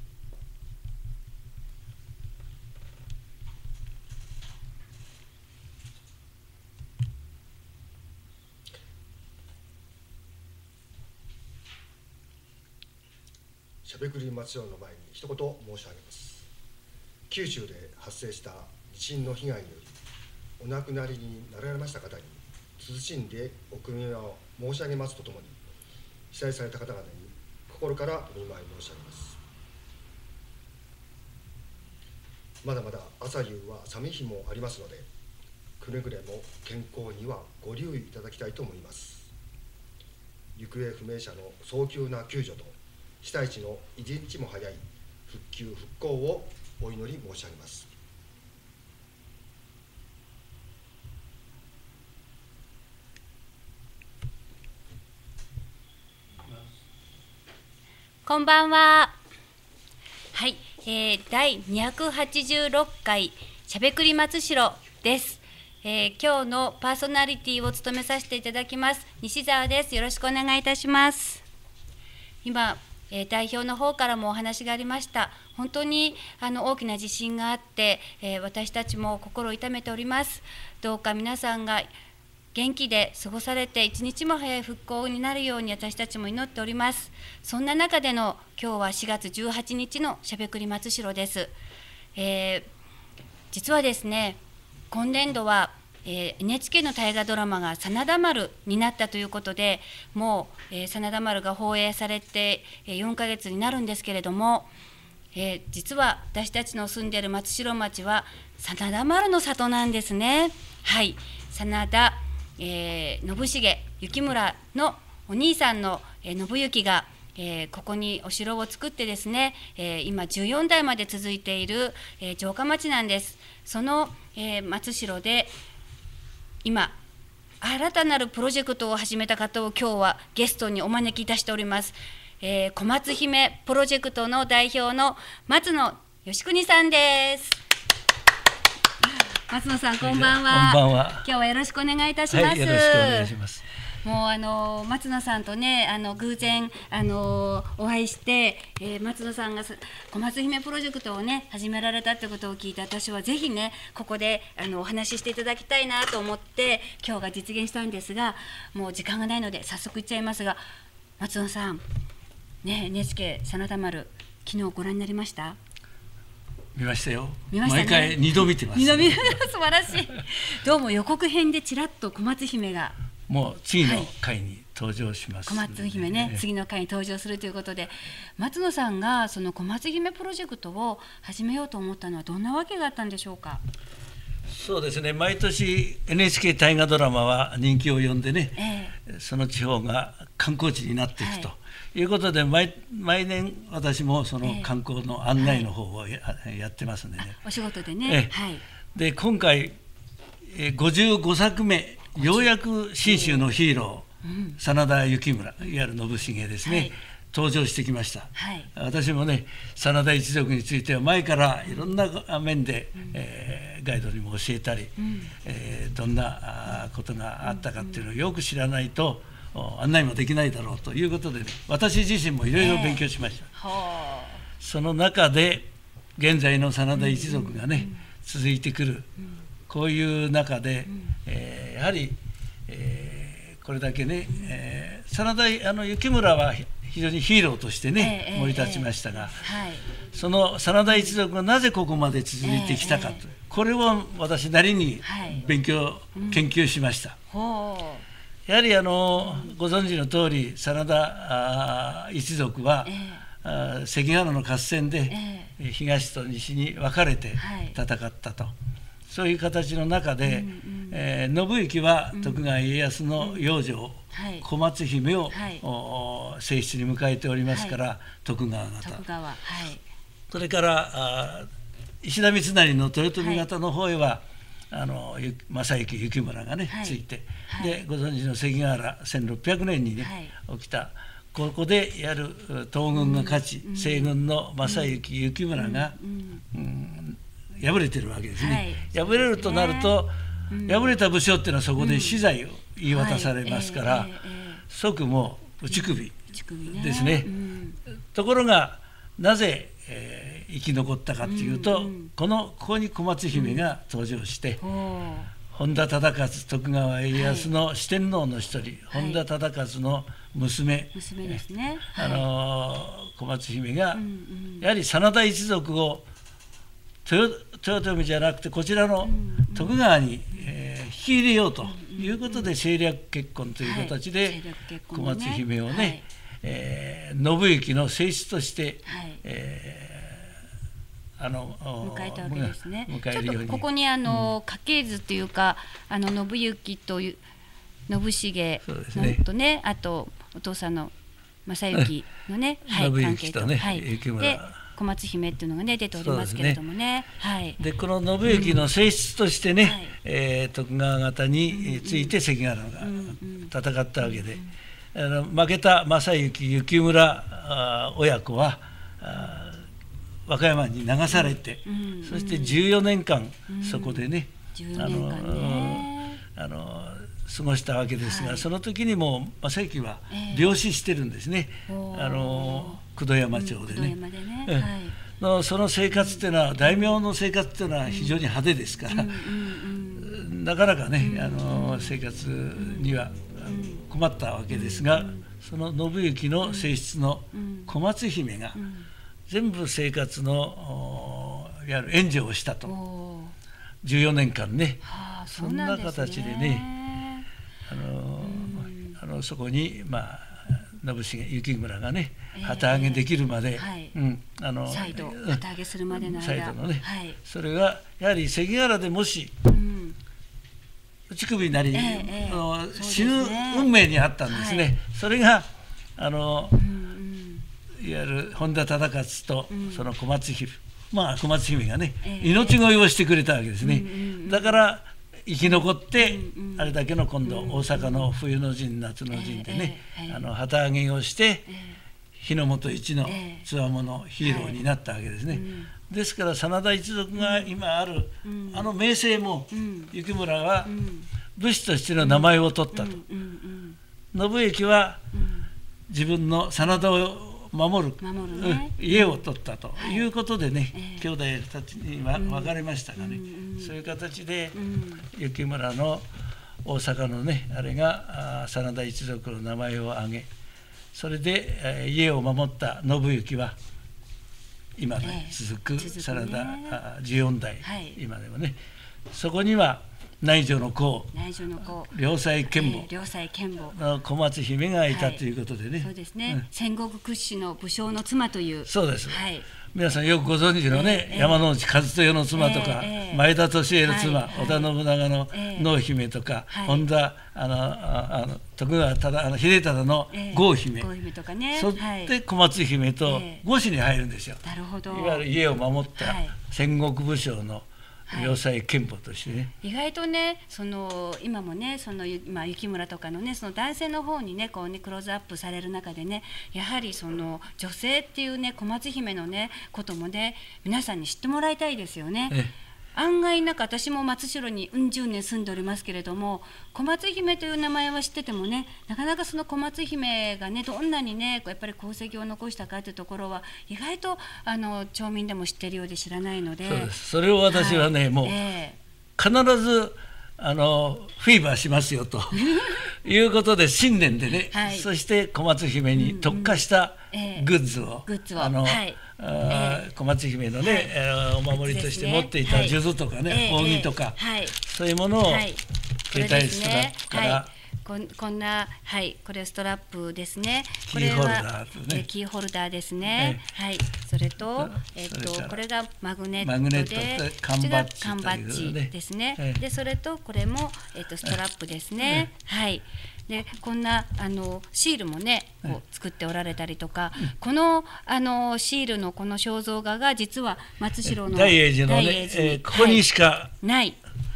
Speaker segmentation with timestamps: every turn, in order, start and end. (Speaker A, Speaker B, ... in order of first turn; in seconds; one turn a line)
Speaker A: 13.8-16.5
Speaker A: 17.3-20.0
Speaker A: 20.6-25.6
Speaker A: 26.3-29.4
Speaker A: 32.6-35.1
Speaker A: 35.8-39.3
Speaker A: 40.5-47.9
Speaker B: 58.2-59.2
Speaker B: 60.3-71.4
Speaker B: 72.4-81.9
Speaker B: 82.5-91.5
Speaker B: 92.2-92.7
Speaker B: 93.5-94.4
Speaker B: 94.9-104.7
Speaker B: 105.3-125.5
Speaker B: 126.6-127.0
Speaker B: 127.6-137.6
Speaker B: 139.0-143.3
Speaker C: 140.0-141.3
Speaker C: 142.3-143.6
Speaker B: 144.0-160.6
Speaker B: 161.2-161.8
Speaker B: 162.6-165.6
Speaker C: 166.8-169.4
Speaker B: 167.5-173.0
Speaker C: 173.3-176.4
Speaker B: 173.8-174.1
Speaker B: 175.5-183.6
Speaker C: 184.5-197.4
Speaker B: 188.6-188.9
Speaker B: 191.2-191.5
Speaker B: 194.4-194.7
Speaker B: 195.4-195.7
Speaker B: 197.3-198.6
Speaker C: 198.0-198.3
Speaker C: 198.9-199.7
Speaker C: 200.5-223.5
Speaker B: 202.2-202.5
Speaker B: 203.0-203.5
Speaker B: 204.2-204.6
Speaker B: 206.6-206.9
Speaker B: 208.3-208.7
Speaker B: 215.0-215.3
Speaker B: 217.4-218.0
Speaker B: 222.5-224.4
Speaker C: 224.6-229.1
Speaker B: 226.9-228.0
Speaker C: 229.7-239.4
Speaker B: 230.8-231.1
Speaker B: 238.0-239.9
Speaker C: 240.1-247.2
Speaker B: 240.8-241.2
Speaker B: 242.4-243.2
Speaker B: 245.0-245.5
Speaker B: 246.1-246.4
Speaker B: 247.3-248.0
Speaker C: 248.5-258.5
Speaker B: 249.2-249.5
Speaker B: 252.8-253.2
Speaker B: 255.1-255.5
Speaker B: 257.4-257.8
Speaker C: 259.1-269.0
Speaker B: 260.2-261.0
Speaker B: 262.1-262.4
Speaker B: 263.2-263.4
Speaker B: 264.1-264.5
Speaker B: 265.3-265.6
Speaker B: 267.5-267.8
Speaker B: 268.8-269.8
Speaker C: 270.3-271.5
Speaker C: 272.0-286.0
Speaker B: 273.2-273.5
Speaker B: 276.7-277.8
Speaker B: 280.0-280.3
Speaker B: 282.9-285.0
Speaker B: 285.5-286.4
Speaker C: 286.5-290.1
Speaker B: 288.4-290.0
Speaker B: 290.5-290.9
Speaker C: 290.6-294.1
Speaker B: 291.8-292.3
Speaker B: 292.9-294.6
Speaker C: 294.7-296.1
Speaker B: 295.7-297.8
Speaker C: 296.7-297.3
Speaker C: 297.9-304.6
Speaker B: 301.2-302.1
Speaker B: 303.3-303.7
Speaker B: 304.6-305.3
Speaker C: 305.5-311.4
Speaker B: 307.1-307.5
Speaker B: 308.9-309.2
Speaker B: 310.9-312.3
Speaker C: 311.9-314.0
Speaker B: 313.9-314.7
Speaker C: 314.6-316.1
Speaker C: 317.0-324.4
Speaker B: 319.0-319.8
Speaker B: 321.6-322.5
Speaker B: 323.6-326.0
Speaker C: 324.9-330.3
Speaker B: 328.9-329.2
Speaker C: 331.2-334.3
Speaker B: 331.8-337.2
Speaker B: 337.9-340.9
Speaker C: 338.6-339.2
Speaker B: 341.4-347.6
Speaker C: 342.6-344.6
Speaker C: 345.9-346.6
Speaker C: 347.6-354.4
Speaker B: 348.2-348.7
Speaker B: 349.6-349.9
Speaker B: 351.5-352.2
Speaker B: 352.8-354.5
Speaker C: 354.9-359.6
Speaker C: 360.3-373.9
Speaker B: 361.1-362.6
Speaker B: 363.5-366.2
Speaker B: 368.0-368.4
Speaker B: 370.1-370.5
Speaker B: 371.7-372.8
Speaker B: 373.3-375.0
Speaker C: 374.5-379.2
Speaker B: 375.9-377.0
Speaker B: 377.9-378.2
Speaker B: 378.9-380.1
Speaker C: 380.0-388.6
Speaker B: 381.0-382.0
Speaker B: 382.6-383.8
Speaker B: 384.5-385.2
Speaker B: 386.4-386.7
Speaker B: 387.3-387.7
Speaker B: 388.5-388.9
Speaker C: 389.3-392.7
Speaker B: 392.6-393.3
Speaker C: 393.8-396.6
Speaker B: 394.8-397.2
Speaker C: 397.7-409.3
Speaker B: 398.2-399.0
Speaker B: 402.3-403.9
Speaker B: 404.7-407.2
Speaker B: 409.4-409.9
Speaker C: 411.1-416.6
Speaker B: 411.7-413.7
Speaker B: 414.2-414.7
Speaker B: 416.5-417.4
Speaker C: 417.8-431.5
Speaker B: 419.5-419.9
Speaker B: 422.0-422.6
Speaker B: 423.6-424.6
Speaker B: 425.4-428.1
Speaker B: 429.1-430.2
Speaker B: 431.5-431.8
Speaker C: 432.2-440.7
Speaker B: 433.0-433.5
Speaker B: 434.2-434.6
Speaker B: 435.3-435.7
Speaker B: 437.1-437.5
Speaker B: 438.2-438.7
Speaker B: 439.5-439.9
Speaker B: 440.6-441.1
Speaker C: 441.4-443.0
Speaker B: 442.0-443.8
Speaker C: 444.1-445.0
Speaker B: 445.1-445.5
Speaker C: 445.9-454.6
Speaker B: 448.0-449.2
Speaker B: 449.8-450.1
Speaker B: 450.7-451.1
Speaker B: 452.1-453.7
Speaker B: 454.5-455.1
Speaker C: 455.1-456.1
Speaker C: 456.6-460.3
Speaker C: 460.9-463.6
Speaker C: 464.8-468.6
Speaker B: 465.0-466.8
Speaker B: 467.6-468.0
Speaker C: 469.1-471.1
Speaker B: 471.1-471.9
Speaker C: 471.9-472.9
Speaker B: 472.4-473.8
Speaker C: 473.7-476.4
Speaker B: 474.9-475.2
Speaker B: 475.8-479.5
Speaker C: 478.7-479.2
Speaker C: 479.7-490.9
Speaker B: 480.7-481.4
Speaker B: 482.3-483.2
Speaker B: 483.9-484.7
Speaker B: 485.3-485.7
Speaker B: 486.5-486.9
Speaker B: 490.1-492.1
Speaker C: 491.5-499.5
Speaker B: 493.0-493.4
Speaker B: 494.4-495.2
Speaker B: 496.0-496.4
Speaker B: 498.1-498.4
Speaker B: 499.6-512.4
Speaker B: 512.9-526.9
Speaker C: 526.6-528.4
Speaker B: 527.5-528.8
Speaker C: 529.2-545.5
Speaker B: 532.3-532.9
Speaker B: 534.5-534.9
Speaker B: 535.9-537.5
Speaker B: 538.0-539.9
Speaker B: 540.6-540.9
Speaker B: 541.6-544.5
Speaker B: 545.2-573.0
Speaker C: 546.1-547.5
Speaker C: 550.9-552.0
Speaker C: 553.1-553.4
Speaker C: 554.6-555.6
Speaker C: 556.4-559.6
Speaker C: 562.0-562.3
Speaker C: 571.0-573.5
Speaker B: 573.6-574.0